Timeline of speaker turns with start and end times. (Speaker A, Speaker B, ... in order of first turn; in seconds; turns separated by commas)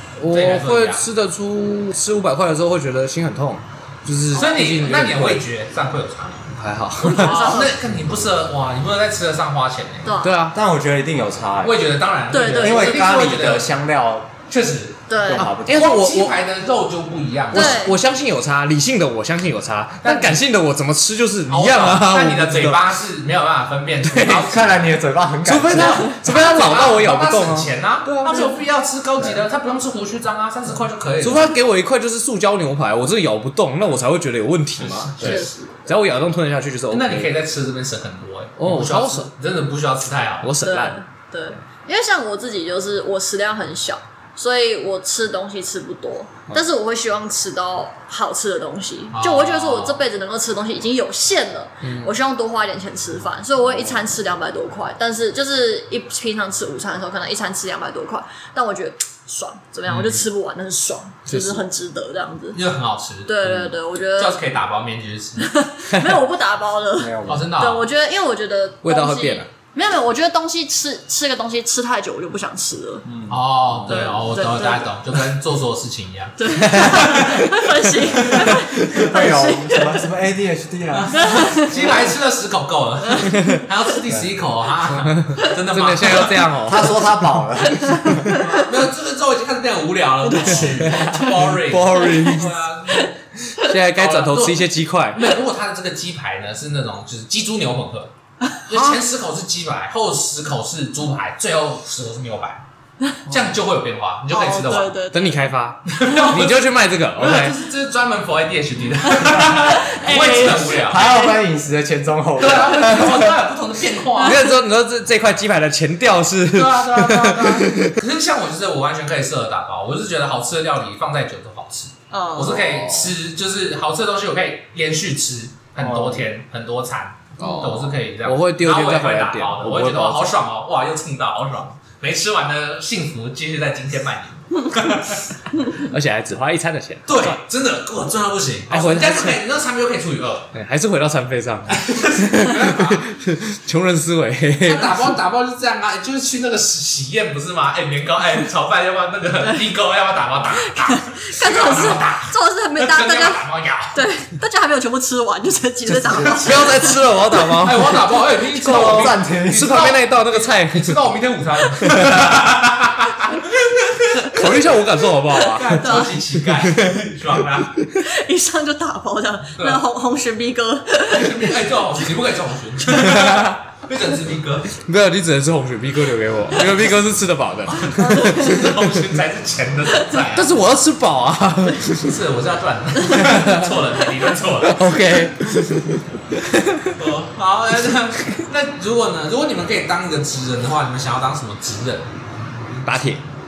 Speaker A: 0.2-5.4, Speaker B: 0.3-1.0, Speaker B: 4.3-6.5, Speaker A: 6.5-7.6, Speaker C: 7.0-7.8, Speaker B: 7.0-10.1, Speaker C: 10.1-10.3, Speaker A: 10.2-10.6, Speaker D: 10.5-11.8, Speaker B: 11.6-13.8, Speaker C: 12.3-13.1, Speaker D: 12.4-14.3, Speaker B: 14.5-15.0, Speaker C: 15.1-15.5, Speaker D: 15.2-15.9, Speaker A: 15.4-16.4, Speaker B: 15.7-17.9, Speaker A: 17.5-22.9, Speaker C: 17.5-18.0, Speaker B: 20.0-20.4, Speaker B: 21.5-25.0, Speaker A: 24.0-24.5, Speaker D: 24.2-26.1, Speaker A: 25.4-28.5, Speaker B: 25.7-31.5, Speaker A: 31.2-37.3, Speaker B: 34.8-35.5, Speaker C: 35.2-35.8, Speaker B: 36.9-40.5, Speaker A: 38.6-39.3, Speaker A: 40.4-41.0, Speaker C: 40.6-62.6, Speaker B: 49.1-50.0, Speaker A: 51.8-52.1, Speaker B: 59.9-60.2, Speaker A: 61.3-61.6, Speaker B: 62.5-65.5, Speaker C: 63.3-64.4, Speaker C: 65.4-73.0, Speaker A: 65.9-66.2, Speaker D: 67.0-67.5, Speaker B: 67.2-67.9, Speaker A: 68.8-69.5, Speaker D: 73.0-74.2, Speaker B: 73.3-77.4, Speaker C: 73.9-74.9, Speaker C: 76.4-80.1, Speaker A: 76.5-77.7, Speaker D: 78.2-82.0, Speaker B: 80.9-86.5, Speaker C: 81.1-82.0, Speaker C: 83.1-83.4, Speaker A: 83.3-83.6, Speaker A: 84.9-87.1, Speaker D: 86.6-88.3, Speaker C: 87.6-88.7, Speaker A: 88.0-88.3, Speaker B: 88.4-93.1, Speaker C: 90.2-91.3, Speaker D: 90.4-92.5, Speaker A: 90.4-92.4, Speaker C: 92.9-93.7, Speaker A: 93.6-95.2, Speaker B: 94.0-98.1, Speaker C: 98.5-98.9, Speaker B: 98.7-102.6, Speaker B: 103.3-105.0, Speaker C: 104.3-105.5, Speaker A: 105.1-107.6, Speaker B: 105.9-111.1, Speaker C: 109.1-111.4, Speaker D: 110.4-113.4, Speaker B: 112.4-114.5, Speaker C: 114.2-114.5, Speaker A: 114.2-118.0, Speaker B: 116.5-135.3, Speaker C: 122.1-122.6, Speaker A: 122.4-123.2, Speaker D: 125.8-126.2, Speaker A: 127.4-130.3, Speaker A: 135.8-137.4, Speaker B: 137.1-140.5, Speaker A: 138.7-139.4, Speaker A: 140.5-145.2, Speaker B: 141.7-143.1, Speaker B: 144.6-153.9, Speaker C: 150.6-157.4, Speaker D: 155.8-156.8, Speaker A: 156.1-161.2, Speaker B: 157.5-164.8, Speaker D: 158.6-159.9, Speaker A: 161.8-162.6, Speaker A: 164.2-167.1, Speaker B: 165.3-167.8, Speaker C: 165.6-166.2, Speaker A: 167.7-168.0, Speaker C: 168.0-171.5, Speaker B: 169.6-169.8, Speaker B: 171.1-174.7, Speaker A: 172.9-173.6, Speaker A: 174.8-179.1, Speaker B: 177.8-180.5, Speaker C: 178.0-178.6, Speaker A: 180.3-182.2, Speaker B: 181.9-185.0, Speaker A: 183.1-183.8, Speaker A: 184.6-187.0, Speaker B: 186.9-192.1, Speaker A: 192.8-193.2